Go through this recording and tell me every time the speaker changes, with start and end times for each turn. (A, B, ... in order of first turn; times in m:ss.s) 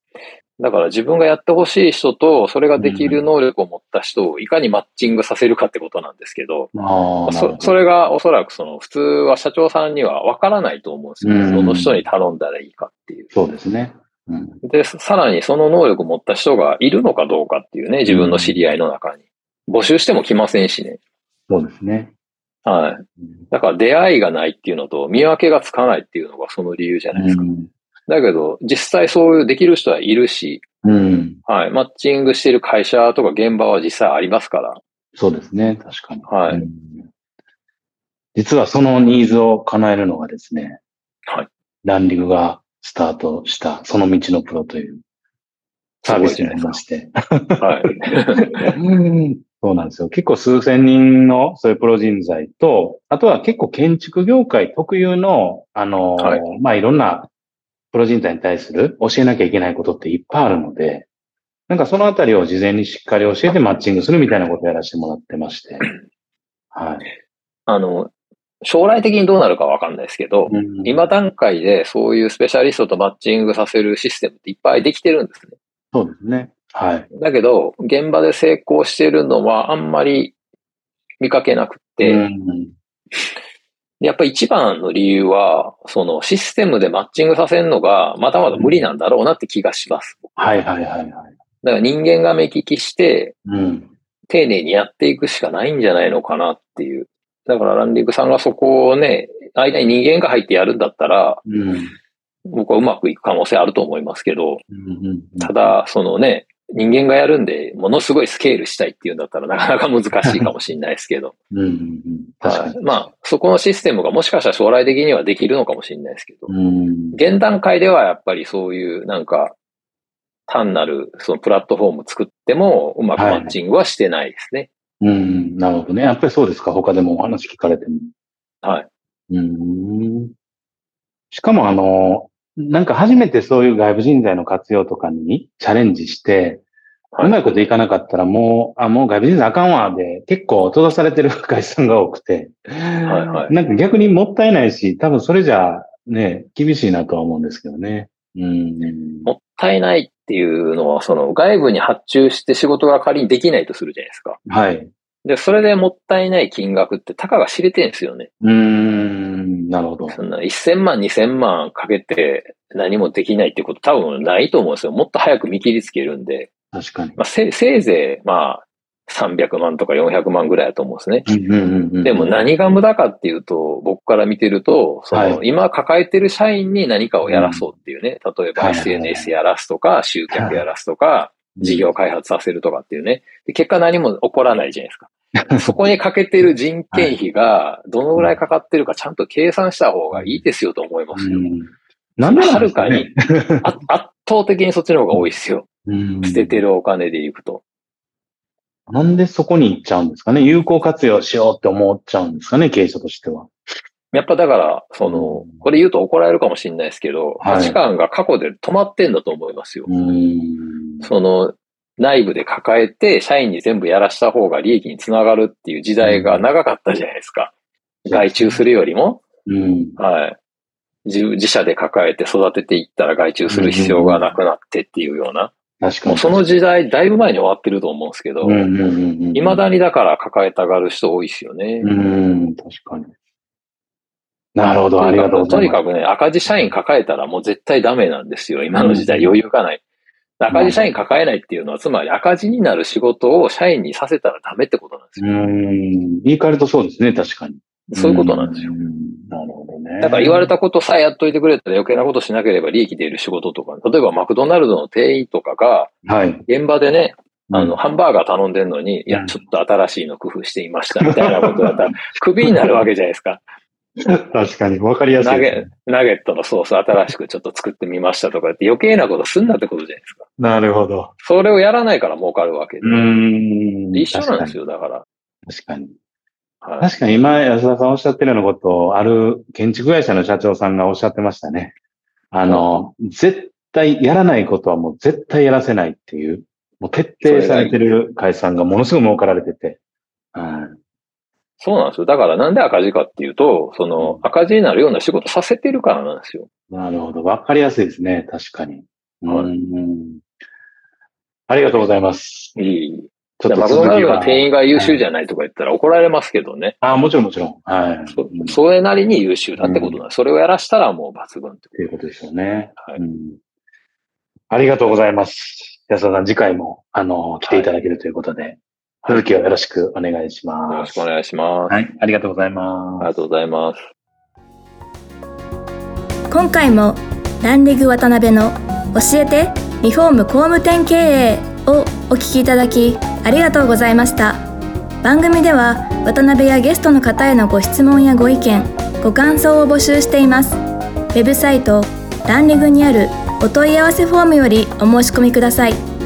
0:00.6-0:06.7 A
0:02.8-0:03.2 B
0:06.7-0:07.7 B
0:07.3-0:13.3 A
0:11.2-0:12.0 B
0:13.3-0:14.6 B
0:14.6-0:21.0 A
0:18.1-0:18.6 B
0:21.5-0:22.1 B
0:22.6-0:27.5 A
0:27.1-0:27.7 B
0:28.1-0:30.6 A
0:30.8-0:31.4 B
0:31.5-0:34.8 A
0:35.2-0:37.1 B
0:36.2-0:36.6 A
0:38.3-0:40.8 B
0:41.8-0:45.0 B
0:46.0-0:46.8 A
0:46.1-0:47.8 B
0:47.6-0:48.7 A
0:48.7-0:57.3 B
0:57.9-1:01.1 B
1:01.7-1:05.9 B
1:06.7-1:07.1 B
1:07.7-1:08.1 A
1:08.6-1:15.5 A
1:10.5-1:11.0 B
1:15.9-1:17.1 B
1:17.1-1:20.3 A
1:21.2-1:22.2 A
1:22.0-1:22.7 B
1:24.0-1:30.2 A
1:28.5-1:28.8 B
1:30.4-1:31.3 B
1:31.6-1:33.3 A
1:33.4-1:33.9 B
1:34.3-1:41.4 A
1:41.4-1:41.9 B
1:42.5-1:44.6 A
1:44.7-1:45.7 B
1:45.4-1:51.3 A
1:51.5-1:53.0 B
1:52.4-1:56.5 A
1:56.5-1:57.2 B
1:57.1-1:59.6 A
2:00.5-2:04.7 A
2:03.2-2:03.5 B
2:05.0-2:08.1 B
2:08.6-2:08.9 A
2:09.3-2:10.3 B
2:11.3-2:16.6 B
2:17.1-2:17.4 A
2:17.2-2:29.3 B
2:23.1-2:23.5 A
2:29.2-2:34.4 A
2:34.5-2:34.9 B
2:35.2-2:38.3 A
2:38.4-2:40.1 B
2:40.1-2:46.5 A
2:46.7-2:47.2 B
2:47.2-2:51.3 A
2:51.2-2:52.4 B
2:52.0-3:11.5 A
2:55.1-2:55.4 B
2:57.2-2:57.7 B
2:58.6-2:59.3 B
3:00.3-3:00.6 B
3:01.6-3:01.8 B
3:05.4-3:05.8 B
3:10.1-3:10.4 B
3:11.1-3:13.7 B
3:12.2-3:15.7 A
3:15.8-3:16.6 B
3:16.2-3:17.6 A
3:18.9-3:23.5 B
3:24.1-3:29.9 A
3:25.0-3:25.6 B
3:27.4-3:27.8 B
3:29.9-3:31.1 B
3:31.0-3:37.5 A
3:36.0-3:36.4 B
3:38.0-3:38.6 B
3:38.1-3:39.2 A
3:39.5-3:40.0 B
3:40.0-3:40.4 A
3:41.0-3:45.5 A
3:43.5-3:44.2 B
3:45.8-3:46.4 B
3:46.1-3:48.7 A
3:48.4-3:49.6 B
3:49.3-3:51.9 A
3:51.8-3:53.1 B
3:54.5-3:55.8 B
3:55.0-3:59.8 A
3:58.8-3:59.3 B
4:00.4-4:05.3 A
4:00.5-4:01.0 B
4:05.2-4:10.5 B
4:07.9-4:08.7 A
4:10.0-4:15.9 A
4:16.0-4:16.4 B
4:16.5-4:23.4 A
4:17.5-4:17.8 B
4:19.1-4:19.3 B
4:21.0-4:21.8 B
4:24.0-4:25.7 B
4:25.2-4:30.2 A
4:30.4-4:31.1 B
4:31.2-4:33.1 A
4:32.8-4:34.5 B
4:33.9-4:35.0 A
4:35.4-4:35.9 B
4:36.6-4:36.9 A
4:36.8-4:41.7 B
4:42.3-4:49.8 B
4:47.2-4:47.8 A
4:50.3-4:50.8 B
4:51.6-4:56.5 A
4:56.7-5:00.2 B
5:01.5-5:02.5 B
5:02.6-5:06.8 A
5:03.4-5:05.0 B
5:06.8-5:08.6 B
5:08.1-5:11.7 A
5:09.6-5:10.0 B
5:11.8-5:13.4 B
5:12.8-5:13.0 A
5:14.5-5:21.0 B
5:17.4-5:17.7 A
5:20.7-5:21.8 A
5:21.7-5:23.2 B
5:23.0-5:23.9 A
5:26.3-5:34.4 C
5:35.0-5:40.6 C
5:41.1-5:45.8 C